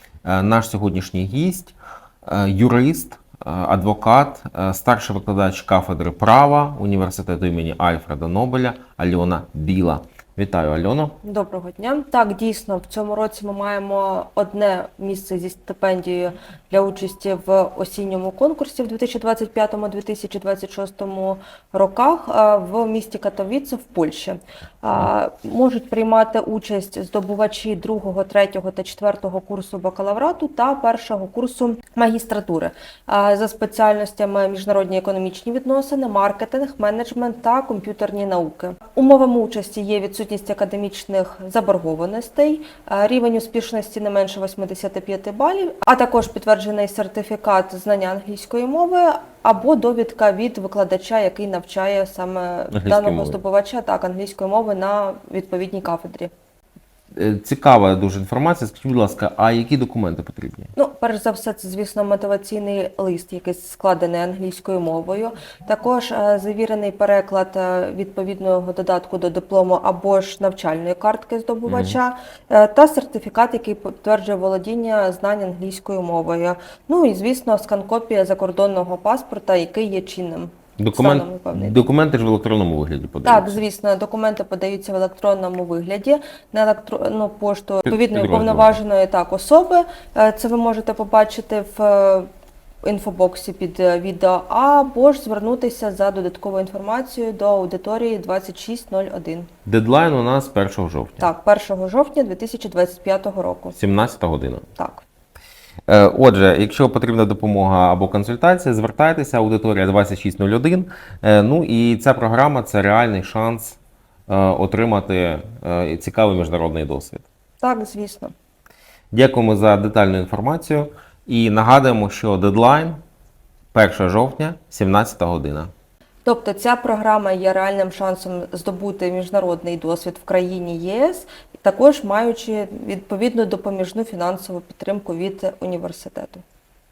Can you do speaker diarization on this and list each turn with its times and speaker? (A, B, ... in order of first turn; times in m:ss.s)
0:00.2-0:01.7 A
0:02.2-0:11.2 A
0:11.2-0:56.3 B
0:52.7-0:53.4 A
0:57.1-1:00.7 A
1:00.8-1:21.8 B
1:11.6-1:12.0 A
1:20.8-1:23.6 A
1:23.2-1:32.3 B
1:27.8-1:28.8 A
1:32.8-1:39.5 B
1:39.6-1:41.3 A
1:41.2-1:43.8 B
1:43.7-1:44.6 A
1:44.8-1:45.0 B
1:45.9-1:57.2 A
1:57.6-1:58.3 B
1:59.1-2:03.0 A
2:03.7-2:05.7 A
2:06.2-2:16.4 B